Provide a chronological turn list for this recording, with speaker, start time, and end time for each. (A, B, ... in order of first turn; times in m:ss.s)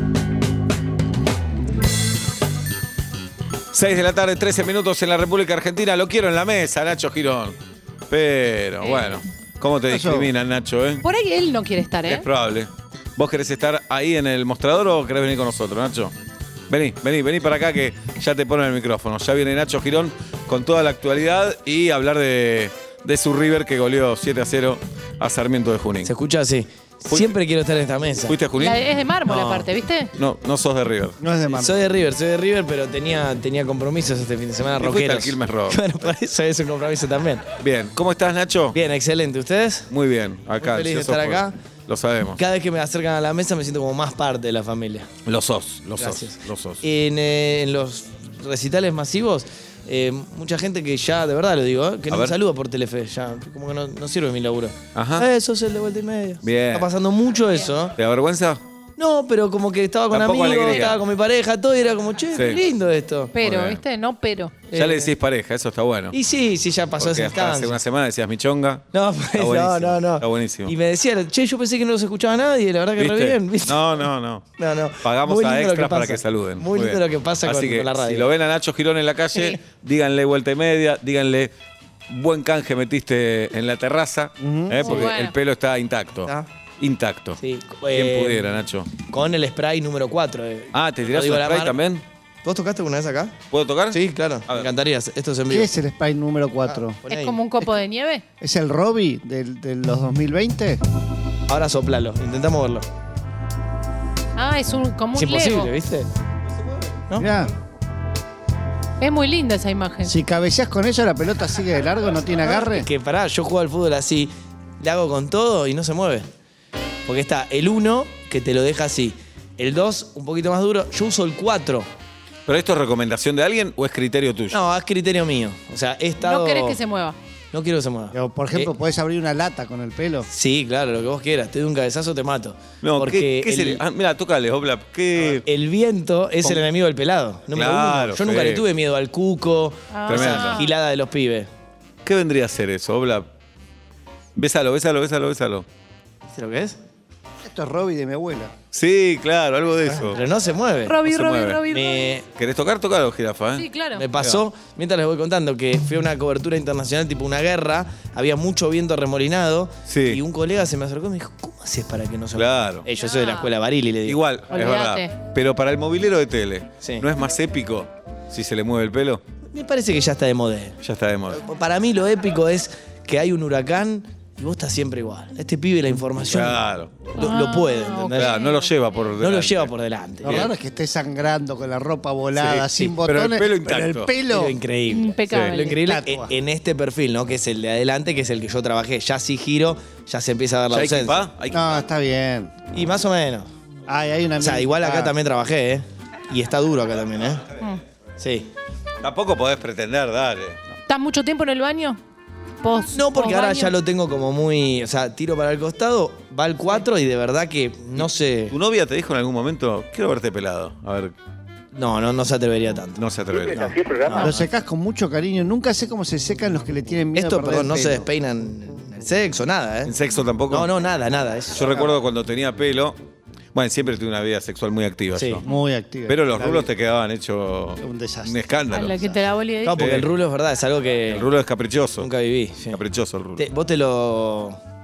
0:03.7-0:07.6 A
0:08.1-0:11.0 A
0:09.9-0:10.3 B
0:11.0-0:12.3 C
0:12.1-0:16.1 A
0:16.7-0:26.1 A
0:26.0-0:28.4 D
0:27.1-0:27.4 A
0:28.2-0:28.9 A
0:28.6-0:30.1 C
0:29.3-0:29.7 D
0:30.2-0:31.2 A
0:31.2-0:31.9 B
0:31.5-0:37.4 D
0:34.8-0:35.8 A
0:37.6-0:38.8 A
0:38.7-0:39.9 D
0:39.9-0:42.4 A
0:40.6-0:41.6 D
0:42.4-0:45.1 D
0:45.2-0:46.8 A
0:46.0-0:57.9 D
0:52.1-0:52.4 A
0:55.0-0:55.3 A
0:56.4-0:56.9 A
0:57.9-0:58.6 A
0:59.0-1:03.4 D
1:00.1-1:01.0 A
1:02.4-1:02.6 A
1:03.3-1:04.6 C
1:03.4-1:03.8 A
1:04.7-1:05.1 D
1:04.7-1:06.2 A
1:06.1-1:07.8 D
1:07.0-1:10.8 A
1:08.9-1:14.0 D
1:13.0-1:14.4 A
1:14.6-1:18.3 D
1:15.0-1:21.5 A
1:22.1-1:27.4 A
1:24.4-1:25.0 B
1:24.8-1:25.3 C
1:27.4-1:31.8 D
1:27.9-1:28.9 A
1:30.7-1:32.0 A
1:32.4-1:33.4 D
1:33.5-1:34.7 A
1:33.9-1:35.7 D
1:35.5-1:37.0 B
1:36.7-1:37.4 D
1:37.1-1:38.2 C
1:38.4-1:40.8 B
1:41.5-1:42.9 D
1:44.4-1:45.7 C
1:45.2-1:46.1 D
1:47.2-1:47.5 B
1:49.0-1:50.2 C
1:50.0-1:52.9 B
1:52.4-1:56.3 D
1:57.1-2:01.9 D
2:02.5-2:04.6 A
2:04.5-2:06.8 D
2:06.2-2:07.2 C
2:07.5-2:08.7 D
2:08.1-2:10.3 B
2:10.2-2:13.8 D
2:12.8-2:15.4 A
2:15.4-2:21.5 D
2:17.5-2:18.6 A
2:19.9-2:20.7 C
2:20.1-2:20.6 A
2:22.0-2:23.3 A
2:24.4-2:25.7 A
2:26.3-2:26.8 D
2:27.4-2:28.5 B
2:28.7-2:30.2 A
2:29.9-2:31.0 D
2:30.8-2:32.0 C
2:31.0-2:31.7 A
2:31.7-2:32.3 D
2:32.3-2:34.4 A
2:33.6-2:34.1 C
2:34.0-2:44.2 D
2:39.9-2:40.2 A
2:42.3-2:42.9 A
2:43.0-2:43.5 C
2:44.0-2:49.2 A
2:44.5-2:45.1 C
2:49.5-2:50.8 D
2:50.8-2:51.4 A
2:51.4-2:56.6 D
2:56.2-2:57.1 A
2:57.1-2:58.3 D
2:57.2-2:58.7 C
2:58.2-2:59.7 A
2:59.2-3:00.5 D
3:00.2-3:04.6 B
3:00.2-3:00.5 A
3:02.4-3:04.1 A
3:04.3-3:11.2 D
3:04.9-3:05.8 C
3:05.3-3:05.6 A
3:05.8-3:06.3 B
3:10.7-3:11.9 A
3:11.5-3:12.5 B
3:12.7-3:13.5 D
3:13.9-3:15.1 B
3:14.4-3:17.5 D
3:18.2-3:18.5 D
3:19.0-3:20.6 A
3:20.9-3:22.0 C
3:22.6-3:23.8 C
3:22.9-3:28.6 D
3:28.0-3:31.1 A
3:31.7-3:33.0 D
3:33.0-3:34.0 A
3:34.0-3:34.5 D
3:34.1-3:38.1 B
3:37.1-3:39.9 D
3:39.9-3:40.7 A
3:40.5-3:41.9 D
3:41.5-3:43.0 A
3:43.5-3:45.5 A
3:45.1-3:45.4 D
3:45.4-3:46.7 B
3:46.1-3:49.0 A
3:47.8-3:49.2 B
3:48.7-3:49.9 C
3:49.6-3:51.3 D
3:49.8-3:50.1 A
3:51.1-3:52.1 A
3:52.0-3:52.8 D
3:52.7-3:53.4 A
3:53.4-3:54.6 D